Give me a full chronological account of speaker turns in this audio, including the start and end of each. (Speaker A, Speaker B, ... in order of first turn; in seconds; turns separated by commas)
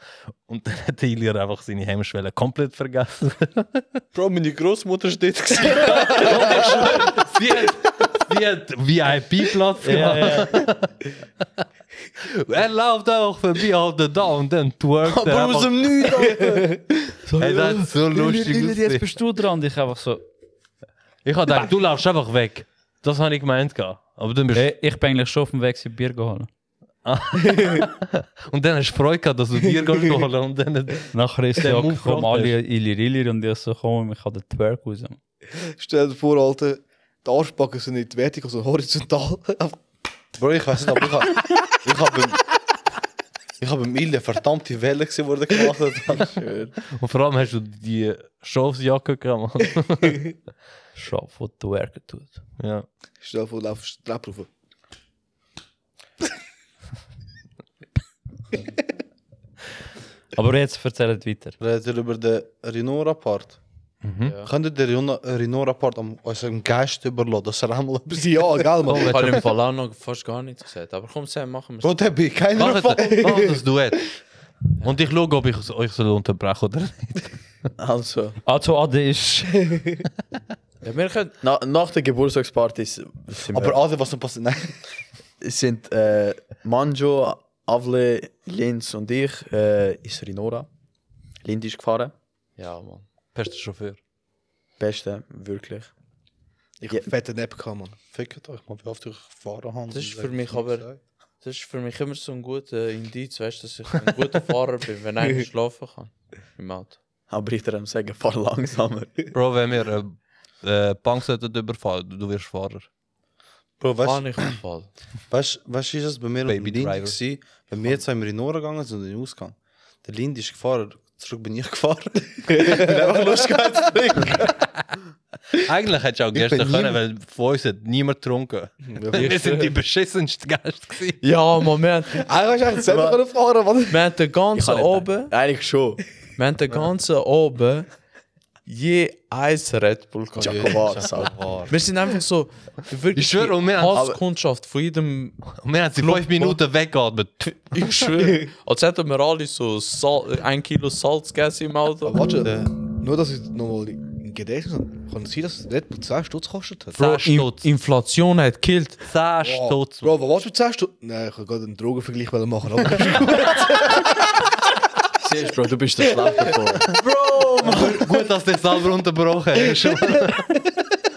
Speaker A: 0.5-3.9, Speaker B: 4.1-7.1, Speaker A: 5.6-10.9, Speaker C: 9.8-10.6, Speaker A: 12.2-16.1, Speaker B: 15.0-17.1, Speaker C: 17.3-20.2, Speaker A: 17.4-19.1, Speaker A: 21.2-24.7, Speaker C: 24.5-26.5, Speaker A: 27.0-32.5, Speaker D: 27.5-27.8, Speaker C: 31.1-35.2, Speaker D: 35.8-39.8, Speaker B: 40.4-42.4, Speaker B: 43.6-46.4, Speaker E: 46.2-46.7, Speaker A: 46.9-50.3, Speaker C: 50.9-52.4, Speaker A: 52.6-52.9, Speaker D: 53.2-54.5, Speaker C: 60.4-61.6, Speaker B: 61.6-63.6, Speaker A: 64.0-64.3, Speaker F: 64.2-64.5, Speaker B: 64.4-69.0, Speaker D: 68.1-69.4, Speaker A: 68.8-69.4, Speaker F: 69.0-72.0, Speaker B: 71.8-73.4, Speaker A: 72.5-74.2, Speaker D: 73.0-73.5, Speaker A: 74.8-77.4, Speaker E: 77.8-78.4, Speaker C: 78.4-79.7, Speaker F: 80.8-81.3, Speaker E: 81.4-83.8, Speaker B: 83.5-84.8, Speaker E: 85.4-90.7, Speaker E: 91.4-92.1, Speaker F: 92.6-93.0, Speaker A: 93.3-94.0, Speaker E: 94.8-95.9, Speaker D: 96.8-98.0, Speaker B: 98.1-101.0, Speaker F: 99.9-100.9, Speaker F: 101.4-107.0, Speaker E: 107.3-109.1, Speaker A: 109.3-112.9, Speaker B: 113.8-114.5, Speaker F: 114.0-114.9, Speaker B: 115.3-124.5, Speaker A: 116.5-117.9, Speaker D: 122.5-123.6, Speaker A: 125.5-131.2, Speaker B: 126.3-127.0, Speaker D: 128.9-129.7, Speaker F: 129.2-129.6, Speaker F: 131.2-132.2, Speaker D: 132.1-134.0, Speaker E: 132.8-133.2, Speaker F: 133.9-135.3, Speaker E: 134.5-136.0, Speaker F: 136.4-137.9, Speaker F: 138.7-140.8, Speaker E: 140.4-141.3, Speaker B: 140.4-141.7, Speaker A: 141.2-141.5, Speaker F: 141.7-146.6, Speaker A: 143.1-144.1, Speaker E: 143.9-144.2, Speaker A: 145.5-147.9, Speaker F: 147.5-152.2, Speaker D: 152.0-157.0, Speaker B: 152.4-152.7, Speaker A: 156.9-157.7, Speaker F: 157.0-159.0, Speaker A: 159.0-160.2, Speaker D: 159.4-164.0, Speaker E: 165.2-166.9, Speaker A: 166.9-170.5